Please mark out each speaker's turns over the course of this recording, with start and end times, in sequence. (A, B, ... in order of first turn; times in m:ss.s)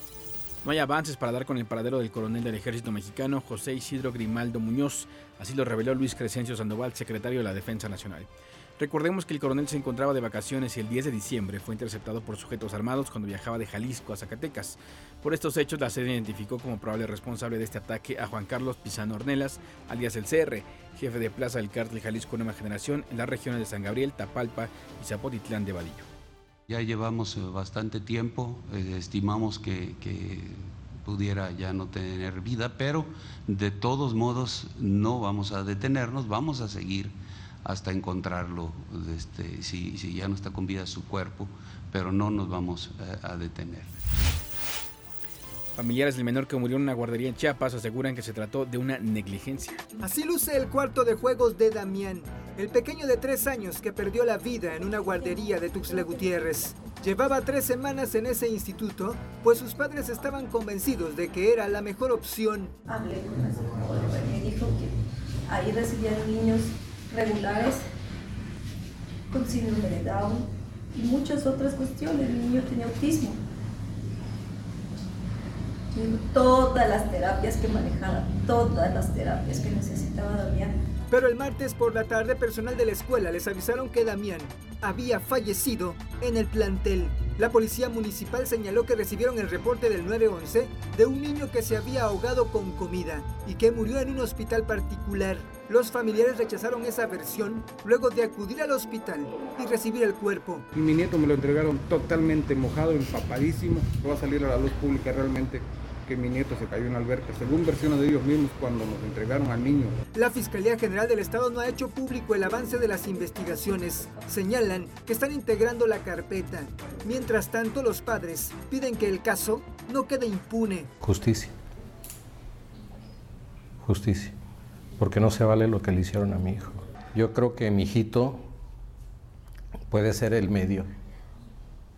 0:00.6-0:26.1 A
0:26.7-0:43.9 B
0:45.8-0:49.8 A
0:50.0-1:02.7 C
1:02.9-1:04.9 D
1:05.5-1:07.8 D
1:09.3-1:13.4 D
1:15.9-1:20.7 D
1:21.1-1:40.6 C
1:40.7-1:50.0 E
1:50.2-2:00.9 C
2:01.0-2:01.5 F
2:03.8-2:04.4 F
2:05.0-2:08.4 F
2:09.9-2:10.9 F